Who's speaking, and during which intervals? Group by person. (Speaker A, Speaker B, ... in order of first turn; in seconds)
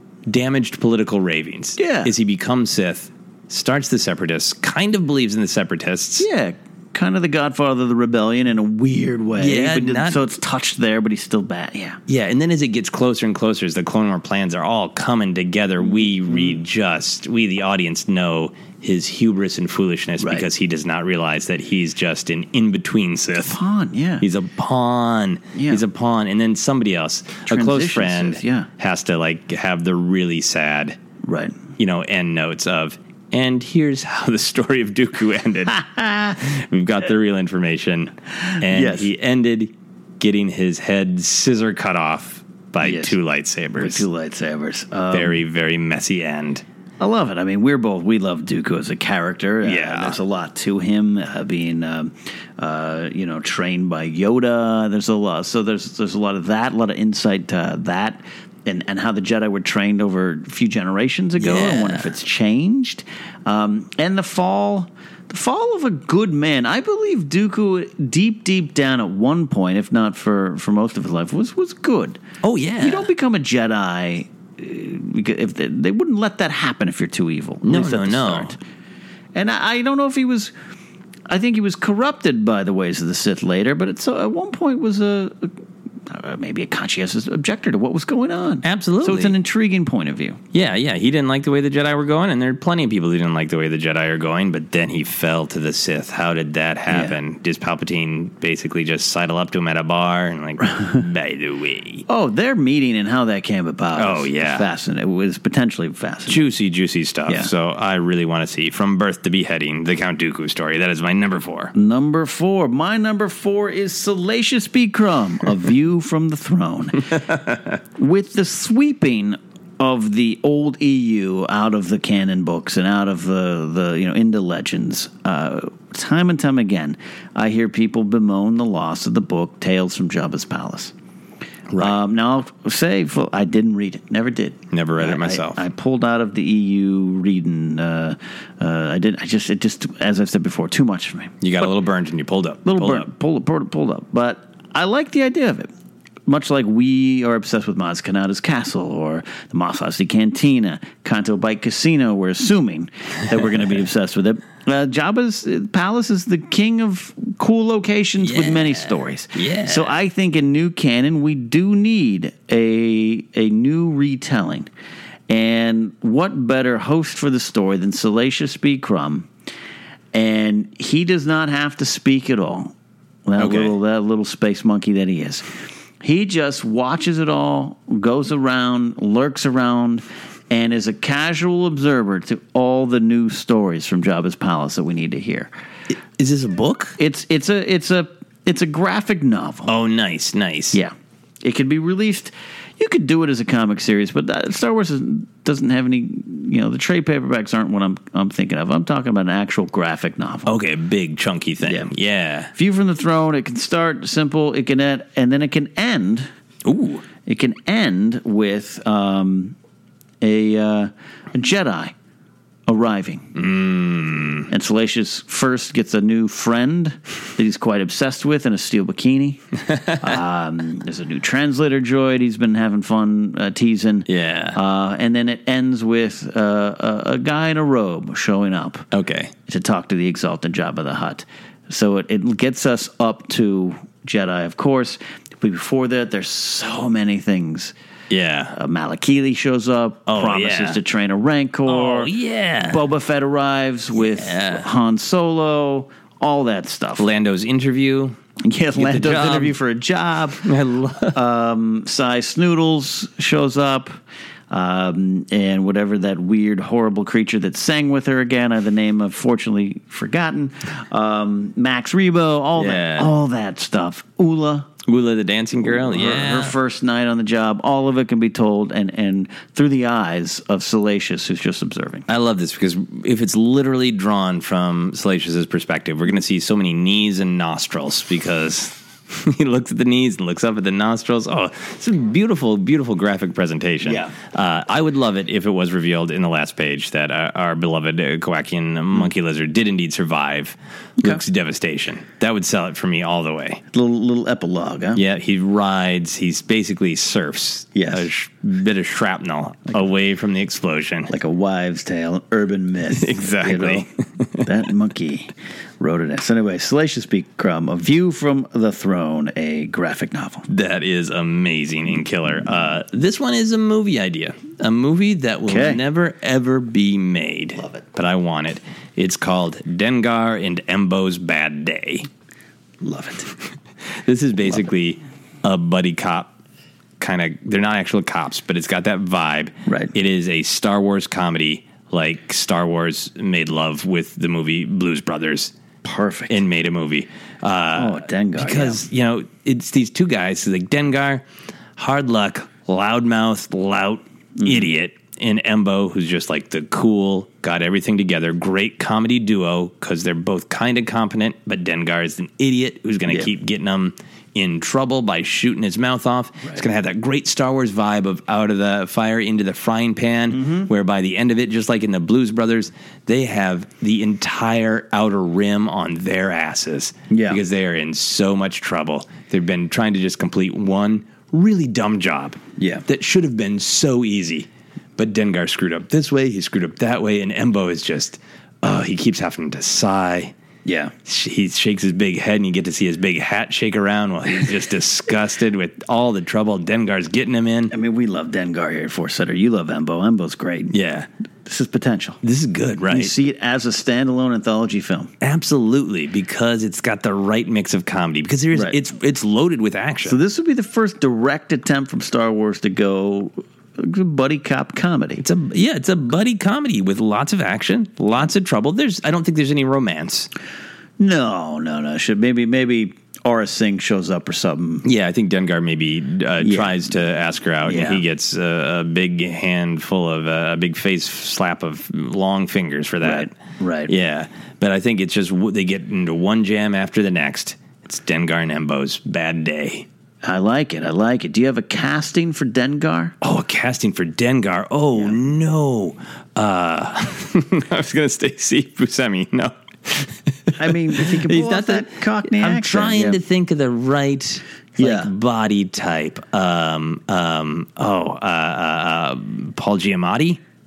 Speaker A: 0.3-6.3, 9.4-10.2, 12.1-23.6, 24.2-31.0, 31.8-44.0, 45.1-46.6, 49.6-50.2, 61.4-62.1, 72.4-73.1, 77.6-78.5, 88.6-89.3, 90.5-102.0, 104.0-104.7, 106.3-111.7, 131.7-132.0, 134.7-135.6, 141.4-143.1, 158.2-159.9, 173.4-173.7, 186.2-187.0, 189.7-190.8, 200.4-202.5, 206.7-207.0, 213.3-214.5, 219.7-220.2, 224.1-224.6, 228.9-229.3, 238.1-238.5, 240.1-240.8, 241.7-242.8, 244.0-244.7, 246.9-248.2, 248.8-249.6, 250.4-251.2, 262.6-263.1, 264.9-266.6, 272.1-293.6, 294.9-301.1, 302.9-304.4, 310.5-322.1, 324.0-326.3, 327.0-335.5, 336.3-341.2, 341.8-380.3, 381.1-387.7, 390.7-391.1, 392.2-393.1, 395.2-400.2, 405.2-410.3, 414.8-423.3, 423.9-429.9, 433.2-450.4
Speaker B: 1.8-2.1, 6.2-12.0, 15.8-16.6, 20.2-20.4, 23.5-24.2, 25.6-25.8, 27.5-28.7, 31.2-31.6, 38.6-39.1, 42.8-43.1, 43.8-45.4, 47.0-72.2, 72.8-78.6, 79.3-80.5, 81.3-85.5, 86.1-90.4, 96.9-97.2, 102.1-106.5, 111.7-117.2, 118.0-130.9, 131.8-141.7, 142.7-145.7, 146.3-164.7, 165.3-169.3, 170.1-172.7, 173.2-175.4, 176.0-185.5, 187.0-189.7, 190.7-200.5, 201.6-201.9, 202.5-206.3, 207.2-209.6, 210.2-211.9, 212.7-213.3, 214.5-219.4, 220.0-228.8, 229.5-237.7, 238.5-242.1, 242.7-247.1, 248.4-250.5, 251.1-254.0, 254.5-264.7, 265.6-272.0, 283.8-284.1, 293.7-295.0, 297.7-298.0, 301.1-303.9, 304.4-310.4, 315.5-315.8, 322.8-323.3, 329.7-329.9, 335.8-336.4, 337.8-338.8, 344.4-344.7, 360.3-360.7, 367.1-367.4, 372.6-372.8, 380.6-380.9, 387.7-390.7, 391.5-392.2, 392.9-395.1, 400.1-405.2, 411.0-414.8, 416.4-416.7, 417.6-418.0, 423.0-423.9, 430.2-433.1, 440.6-443.2, 444.8-445.1